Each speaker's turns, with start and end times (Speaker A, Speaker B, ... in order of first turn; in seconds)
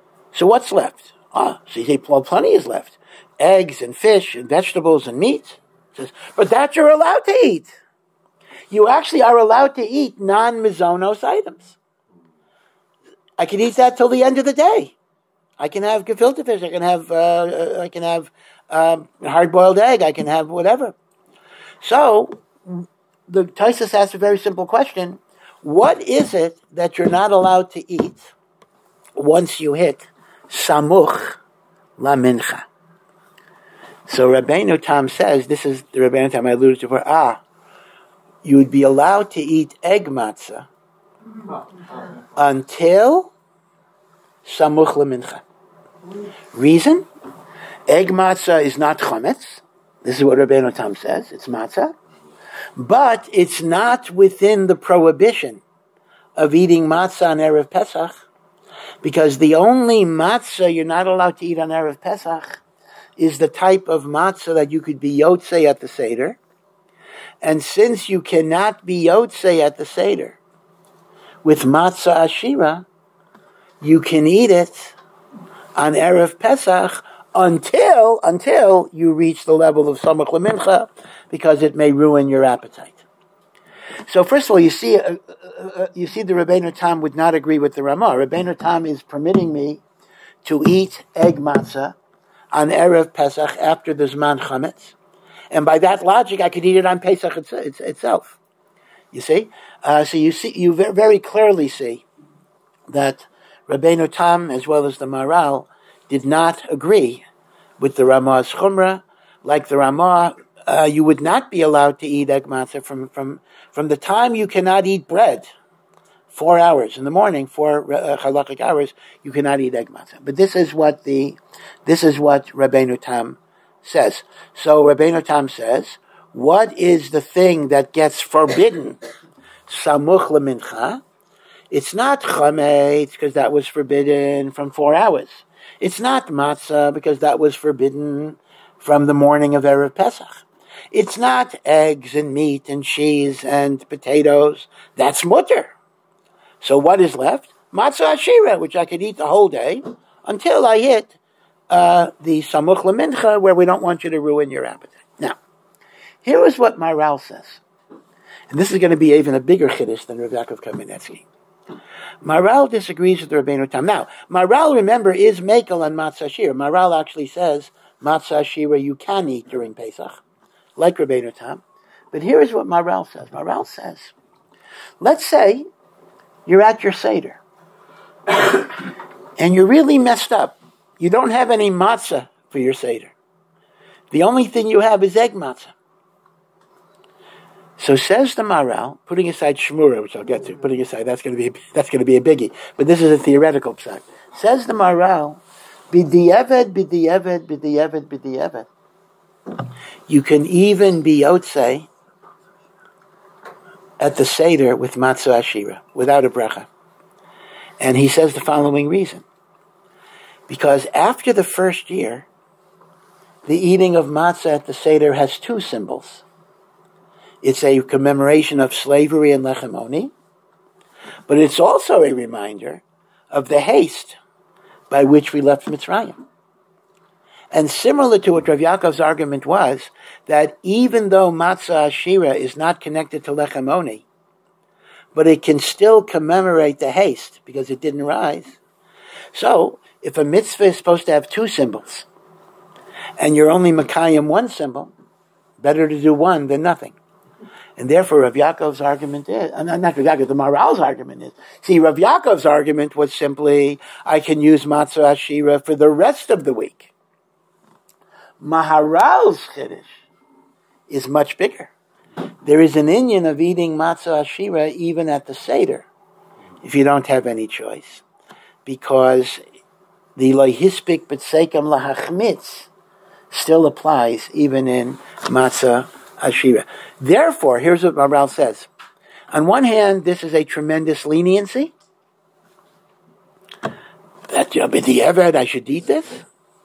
Speaker A: 0.3-7.7, 8.7-11.8, 13.4-14.9, 15.6-20.9, 21.8-28.3, 29.2-31.4, 32.0-32.7, 34.1-37.4, 38.4-40.7, 42.4-43.3, 44.4-45.4, 46.5-47.0, 47.9-51.9, 52.8-55.6, 56.4-58.2, 59.0-62.6, 63.2-66.4, 67.4-70.4, 71.4-72.8, 73.8-75.0, 75.8-83.0, 84.1-89.8, 90.4-92.0, 92.5-95.0, 95.5-98.4, 99.1-102.0, 102.9-107.2, 107.8-115.5, 116.3-129.0, 129.7-131.0, 131.7-145.7, 146.6-151.2, 151.7-155.4, 156.2-157.6, 158.5-161.3, 162.2-170.2, 170.8-174.1, 175.0-175.7, 176.5-177.4, 179.4-183.1, 184.1-185.7, 187.8-198.7, 200.1-201.9, 204.0-206.7, 207.8-209.2, 210.5-212.3, 213.5-216.2, 217.4-220.1, 221.3-224.2, 224.9-226.2, 227.5-234.1, 235.2-238.6, 239.3-242.1, 243.2-244.9, 245.6-247.0, 247.8-256.9, 258.4-260.0, 260.9-261.7, 262.4-265.9, 266.6-268.0, 268.7-269.4, 270.2-272.7, 273.3-278.7, 279.3-281.7, 284.3-286.2